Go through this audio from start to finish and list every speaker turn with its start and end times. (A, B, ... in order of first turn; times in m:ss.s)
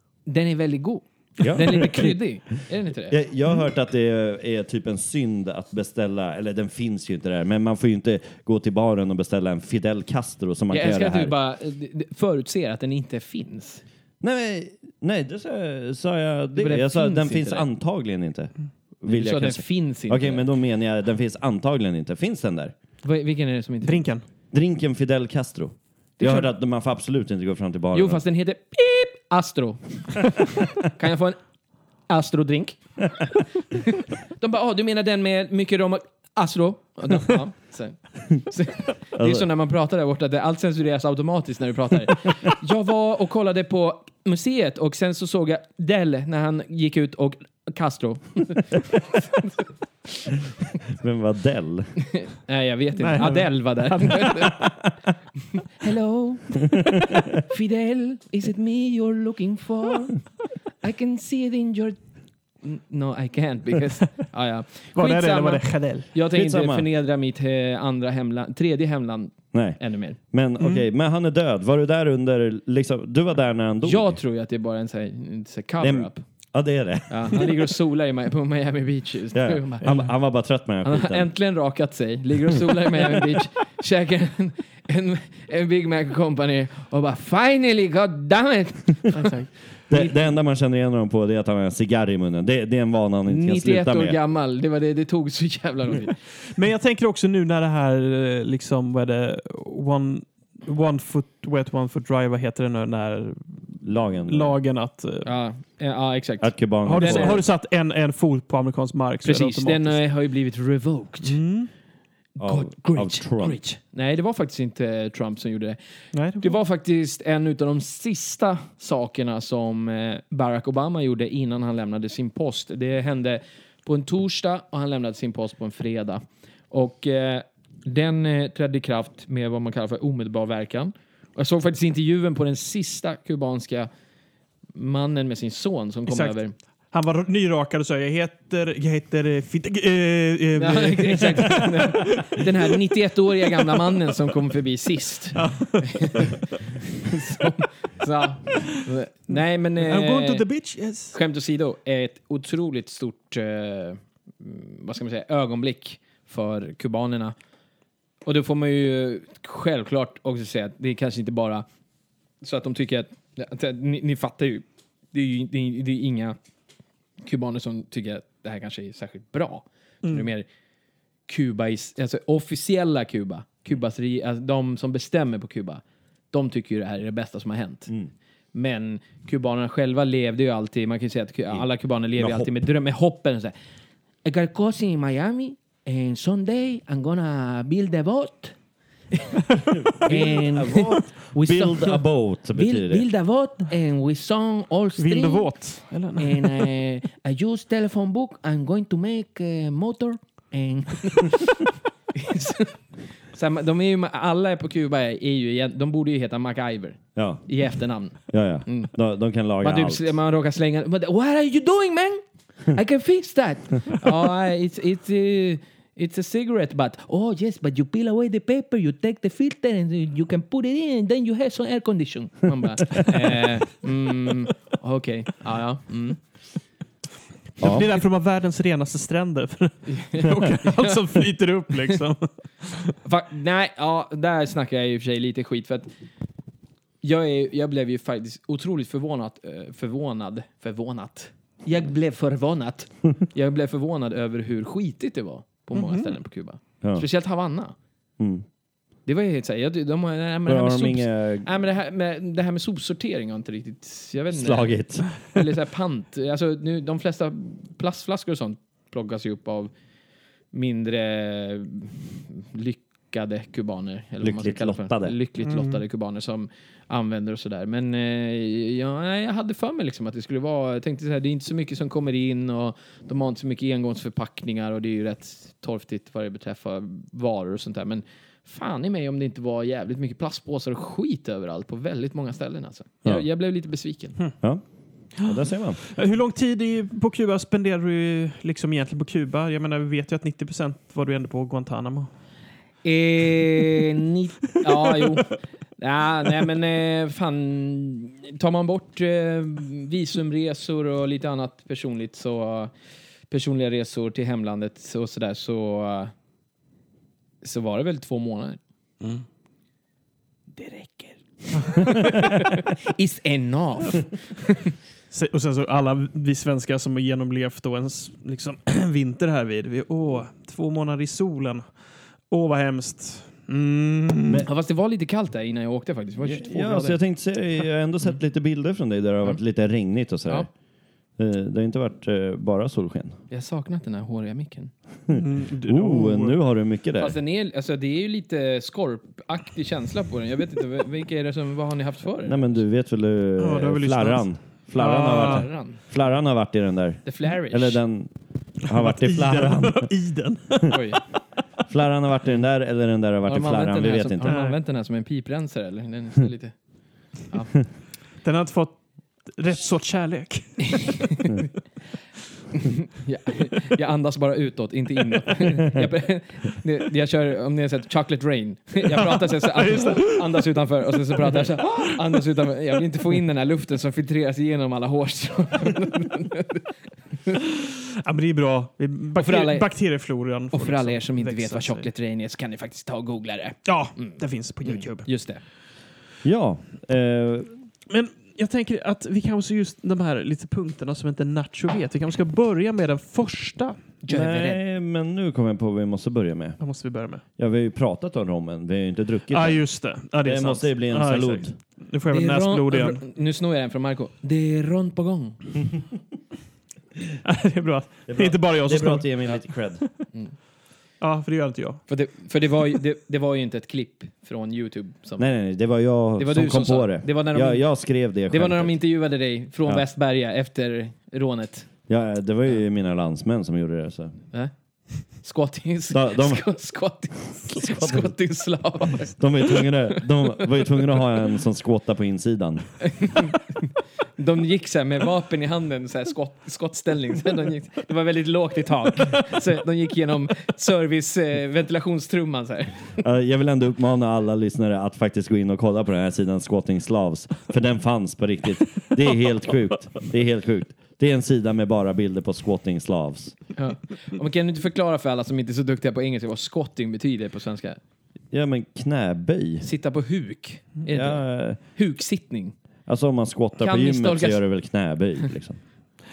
0:00.2-0:03.2 A
0:01.4-0:02.1 B
0:03.1-0:11.3 B
0:10.7-0:13.8 A
0:14.2-0:22.7 B
0:16.6-0:17.6 A
0:19.1-0:20.4 A
0:23.0-0:24.0 A
0:23.8-0:24.2 C
0:24.5-0:28.2 B
0:26.2-0:26.5 A
0:27.9-0:31.4 A
0:32.1-0:32.8 A
0:33.8-0:49.5 A
0:39.2-0:39.5 B
0:50.8-0:51.9 B
0:52.1-0:54.6 A
0:53.0-0:54.7 C
0:55.6-1:00.2 A
0:56.7-0:57.0 B
1:00.8-1:02.0 A
1:02.6-1:10.2 A
1:04.9-1:06.1 C
1:06.3-1:06.9 B
1:09.5-1:09.8 B
1:10.3-1:14.2 B
1:10.6-1:10.9 C
1:13.8-1:16.2 A
1:15.8-1:17.5 B
1:17.1-1:19.9 A
1:19.3-1:21.3 B
1:20.8-1:30.1 A
1:29.9-1:34.2 B
1:33.3-1:36.1 A
1:36.5-1:43.6 C
1:43.8-1:44.6 B
1:44.2-1:45.2 C
1:45.2-1:47.4 A
1:46.4-1:47.4 B
1:46.8-1:50.0 C
1:49.2-1:51.4 A
1:51.2-1:51.7 C
1:52.4-1:55.8 A
1:52.4-1:53.6 B
1:56.1-1:56.5 C
1:56.4-2:13.9 A
2:14.7-2:16.5 A
2:16.1-2:16.4 C
2:16.9-2:22.5 C
2:20.6-2:26.4 A
2:25.3-2:26.4 C
2:27.0-2:30.4 A
2:29.8-2:31.2 C
2:31.1-2:37.3 A
2:38.2-2:41.6 A
2:42.4-2:46.4 A
2:47.2-2:50.5 A
2:50.0-2:50.3 C
2:51.3-2:57.9 A
2:58.5-3:03.5 A
3:02.2-3:02.6 B
3:04.2-3:08.5 A
3:09.7-3:13.0 B
3:10.0-3:12.0 A
3:12.5-3:15.6 A
3:15.0-3:16.7 C
3:16.2-3:21.5 A
3:22.1-3:22.8 A
3:23.3-3:28.9 A
3:27.2-3:27.4 B
3:28.3-3:30.1 B
3:29.6-3:46.2 A
3:47.6-3:52.9 C
3:47.6-3:47.9 B
3:49.9-3:51.0 A
3:53.0-3:55.9 A
3:57.0-4:07.7 A
4:05.7-4:06.1 C
4:08.2-4:08.4 B
4:09.0-4:19.7 A
4:10.4-4:11.5 B
4:14.3-4:15.1 B
4:20.5-4:44.2 A
4:24.2-4:25.2 B
4:25.4-4:25.8 C
4:45.2-4:45.8 B
4:45.2-4:52.1 C
4:52.8-5:02.7 A
5:03.3-5:06.1 A
5:07.4-5:08.6 A
5:10.5-5:14.6 A
5:11.9-5:12.2 C
5:15.1-5:21.6 C
5:22.3-5:24.5 C
5:24.4-5:27.0 A
5:26.2-5:30.5 B
5:31.2-5:33.2 B
5:33.3-5:34.7 A
5:35.1-5:37.2 B
5:35.1-5:36.4 C
5:37.0-5:42.5 A
5:42.2-5:48.1 B
5:43.4-5:45.5 C
5:45.2-5:45.8 A
5:47.0-5:47.8 A
5:48.6-5:49.9 B
5:48.7-5:51.0 C
5:50.7-5:51.0 A
5:51.7-5:54.4 B
5:53.3-5:56.5 A
5:54.3-5:54.6 C
5:57.2-5:57.5 A
5:58.2-6:01.1 C
6:01.2-6:01.5 A
6:02.5-6:16.6 A
6:08.9-6:10.5 C
6:11.2-6:11.8 C
6:17.4-6:21.9 C
6:19.2-6:19.7 A
6:20.5-6:25.4 A
6:23.6-6:25.1 C
6:26.2-6:27.5 B
6:27.9-6:33.8 C
6:34.0-6:34.6 A
6:34.1-6:36.6 B
6:36.6-6:37.2 C
6:37.4-6:39.6 B
6:39.3-6:43.0 C
6:40.2-6:41.5 B
6:42.1-6:45.4 A
6:47.2-6:49.4 C
6:48.1-6:49.8 B
6:51.0-6:51.8 C
6:51.9-6:55.3 A
6:55.2-6:58.7 B
6:56.2-6:57.6 A
6:58.3-7:01.7 A
7:01.9-7:04.2 B
7:05.2-7:10.4 A
7:05.9-7:06.4 B
7:07.6-7:08.1 B
7:09.2-7:12.6 B
7:12.8-7:22.8 A
7:23.0-7:33.4 B
7:33.6-7:37.8 A
7:38.3-7:39.7 B
7:39.6-7:42.6 A
7:40.9-7:41.6 B
7:42.9-7:45.6 B
7:43.6-7:44.4 A